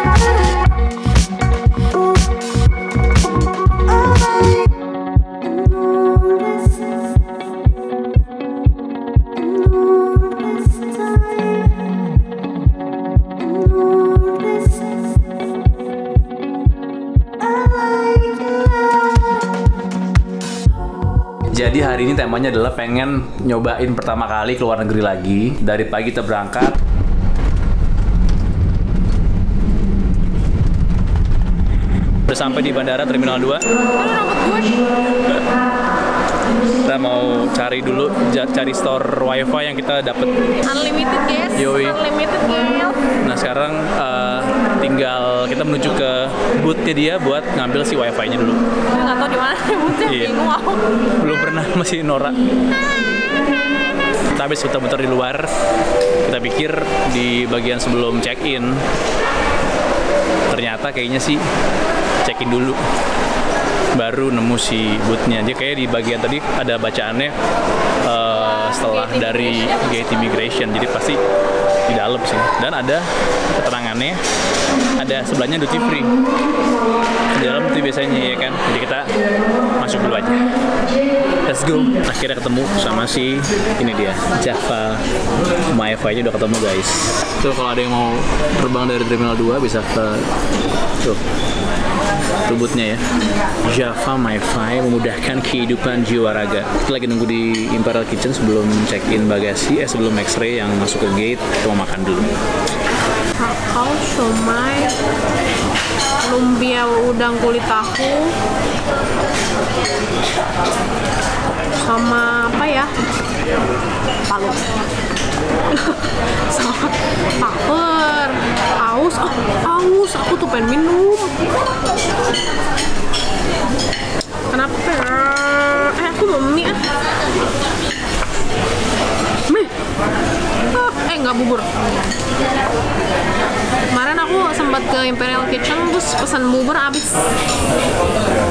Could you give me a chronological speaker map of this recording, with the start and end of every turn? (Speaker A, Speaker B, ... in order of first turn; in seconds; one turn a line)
Speaker A: 21.5-26.8
Speaker A: 32.3-33.6
Speaker B: 34.0-34.9
Speaker A: 36.8-40.3
Speaker B: 40.6-43.0
Speaker A: 41.5-42.0
Speaker A: 43.2-48.6
Speaker B: 48.9-50.8
Speaker A: 50.0-50.3
Speaker A: 51.2-52.4
Speaker A: 54.3-55.5
Speaker A: 56.2-58.8
Speaker A: 60.5-61.4
Speaker A: 62.2-62.8
Speaker A: 63.9-67.3
Speaker A: 68.0-71.2
Speaker B: 68.3-70.4
Speaker A: 71.9-74.2
Speaker A: 75.0-76.1
Speaker A: 77.3-79.1
Speaker A: 79.8-80.5
Speaker A: 81.5-85.0
Speaker A: 85.7-90.2
Speaker A: 92.4-93.0
Speaker A: 93.6-102.3
Speaker B: 103.4-104.9
Speaker B: 106.2-108.3
Speaker B: 111.8-112.9
Speaker B: 114.3-114.7
Speaker B: 115.7-121.3
Speaker B: 124.5-126.8
Speaker B: 130.6-131.7
Speaker B: 133.9-137.2